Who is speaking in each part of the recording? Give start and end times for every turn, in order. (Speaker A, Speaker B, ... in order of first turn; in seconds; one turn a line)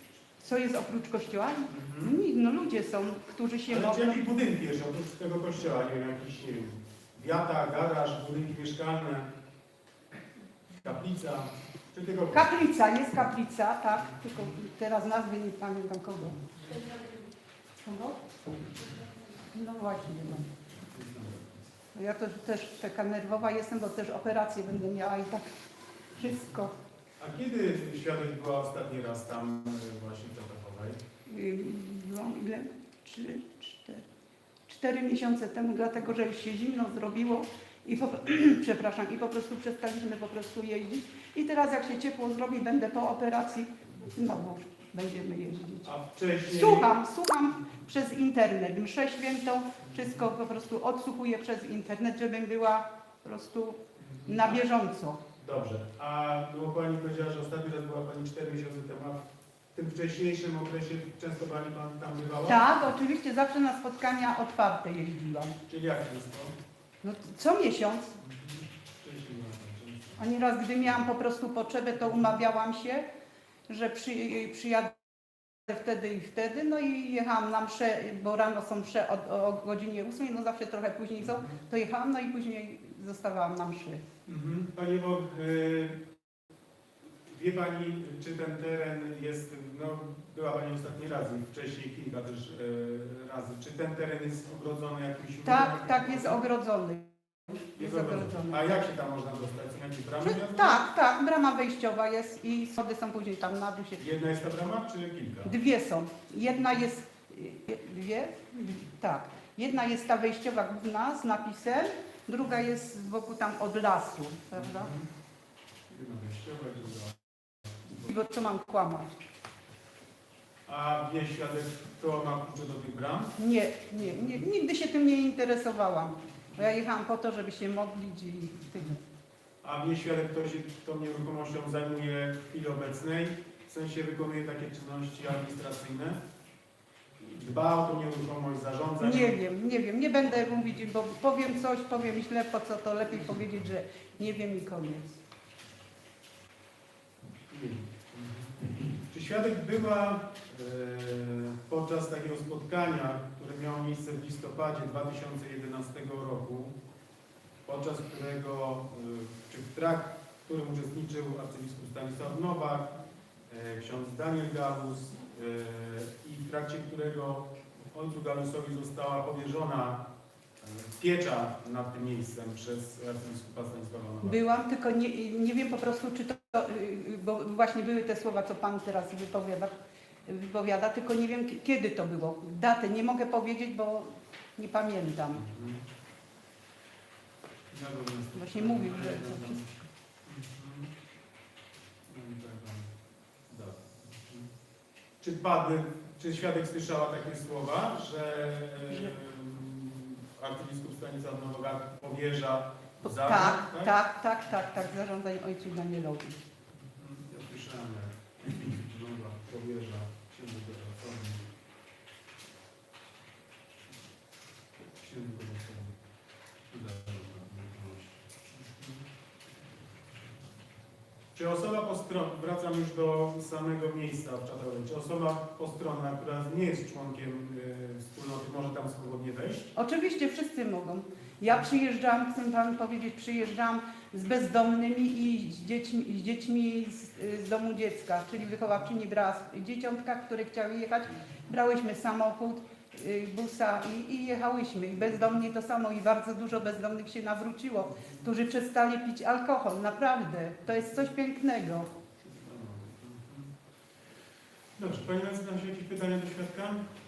Speaker A: 0.4-4.2
Speaker B: 1.7-2.2
Speaker B: 3.7-9.3
Speaker B: 10.8-12.6
Speaker A: 12.3-16.4
Speaker A: 17.8-18.2
Speaker A: 19.4-20.5
Speaker B: 20.9-21.7
Speaker A: 21.9-25.5
Speaker A: 26.1-26.8
Speaker B: 27.2-31.0
Speaker A: 31.3-34.0
Speaker A: 34.7-45.9
Speaker B: 45.9-47.0
Speaker A: 46.5-55.2
Speaker B: 54.0-54.6
Speaker B: 55.4-62.8
Speaker A: 62.5-65.6
Speaker B: 65.7-66.6
Speaker A: 67.0-68.2
Speaker B: 68.2-70.3
Speaker A: 70.2-73.1
Speaker A: 73.7-84.0
Speaker B: 81.2-81.6
Speaker B: 84.3-86.1
Speaker B: 87.2-96.4
Speaker A: 95.4-98.8
Speaker B: 97.8-100.8
Speaker A: 100.2-104.0
Speaker B: 104.0-105.6
Speaker A: 105.5-114.9
Speaker B: 114.6-115.1
Speaker B: 115.9-117.2
Speaker A: 118.0-119.2
Speaker B: 120.7-123.4
Speaker A: 123.4-129.0
Speaker B: 129.6-136.2
Speaker B: 137.2-139.4
Speaker A: 139.0-145.2
Speaker B: 147.5-156.8
Speaker B: 157.7-163.0
Speaker B: 163.5-170.1
Speaker B: 170.6-174.4
Speaker A: 174.2-185.4
Speaker B: 185.3-185.8
Speaker B: 187.7-189.7
Speaker A: 188.3-189.6
Speaker B: 190.3-190.9
Speaker B: 192.1-192.9
Speaker B: 193.5-194.5
Speaker B: 195.2-204.0
Speaker A: 203.0-206.4
Speaker B: 206.8-211.5
Speaker B: 215.0-216.0
Speaker B: 216.7-219.0
Speaker B: 221.3-229.7
Speaker A: 229.8-251.9
Speaker B: 248.0-248.2
Speaker B: 252.2-253.5
Speaker B: 254.8-256.9